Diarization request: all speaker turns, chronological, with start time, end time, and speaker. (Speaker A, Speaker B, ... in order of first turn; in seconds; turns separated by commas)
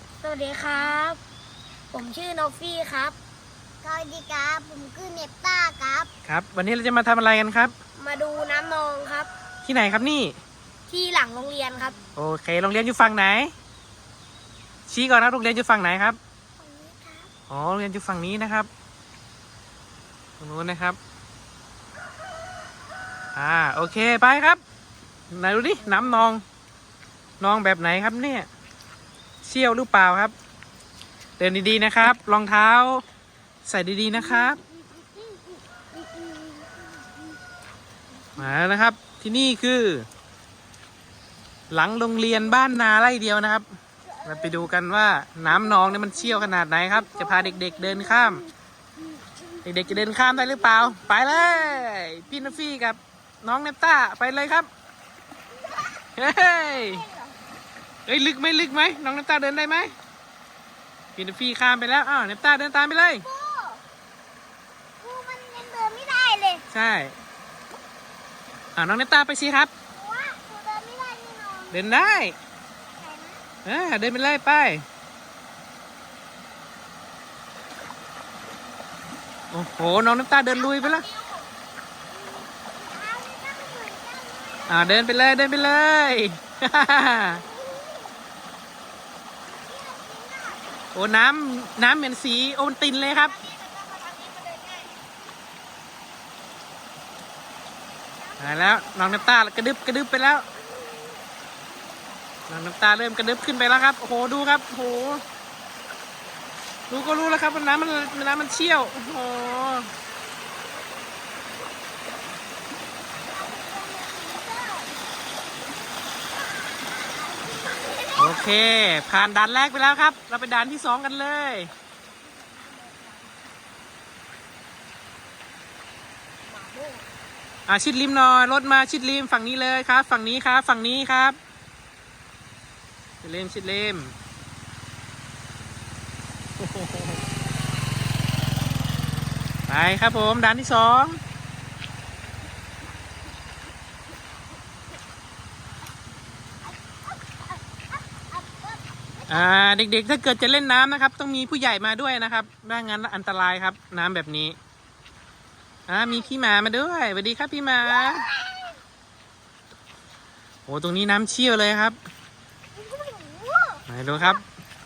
Speaker A: 0.2-1.2, Speaker A: 1.9-3.1, Speaker B: 3.8-6.1, Speaker C: 6.2-7.7, Speaker A: 8.0-9.3, Speaker C: 9.6-10.4, Speaker A: 10.9-11.9, Speaker C: 12.1-13.5, Speaker C: 14.9-16.2, Speaker B: 16.6-17.3, Speaker C: 17.5-18.7, Speaker C: 20.4-21.0, Speaker C: 23.3-24.6, Speaker C: 25.3-26.4, Speaker C: 27.4-28.5, Speaker C: 29.4-30.3, Speaker C: 31.4-33.0, Speaker C: 33.6-34.6, Speaker B: 34.4-36.8, Speaker C: 38.4-40.1, Speaker C: 41.7-43.7, Speaker B: 44.0-44.7, Speaker C: 44.2-48.4, Speaker B: 45.7-48.5, Speaker C: 49.6-54.7, Speaker B: 50.4-51.1, Speaker B: 55.6-57.4, Speaker C: 56.1-57.0, Speaker C: 58.1-59.9, Speaker C: 61.1-63.2, Speaker B: 63.2-63.8, Speaker B: 65.0-66.6, Speaker C: 66.7-67.2, Speaker C: 68.7-69.7, Speaker B: 69.9-71.8, Speaker C: 71.7-72.3, Speaker B: 73.0-73.4, Speaker C: 73.6-74.8, Speaker C: 79.5-81.0, Speaker B: 80.5-81.5, Speaker B: 82.1-85.0, Speaker C: 84.7-87.4, Speaker B: 87.3-88.1, Speaker B: 89.5-90.7, Speaker C: 90.9-93.3, Speaker B: 93.2-94.9, Speaker B: 98.2-99.3, Speaker C: 98.4-100.5, Speaker B: 100.7-101.2, Speaker C: 102.5-105.2, Speaker C: 106.9-109.9, Speaker B: 107.4-108.4, Speaker B: 113.3-114.9, Speaker B: 117.0-118.4, Speaker C: 118.1-121.7, Speaker B: 122.8-123.2, Speaker B: 126.5-127.0, Speaker C: 127.7-131.4, Speaker C: 133.2-134.1, Speaker C: 136.6-137.2, Speaker C: 139.7-141.2, Speaker B: 148.1-149.3, Speaker C: 149.3-154.6, Speaker C: 155.9-158.3, Speaker B: 158.2-158.7, Speaker C: 160.7-162.0, Speaker B: 162.8-163.8, Speaker C: 163.8-164.4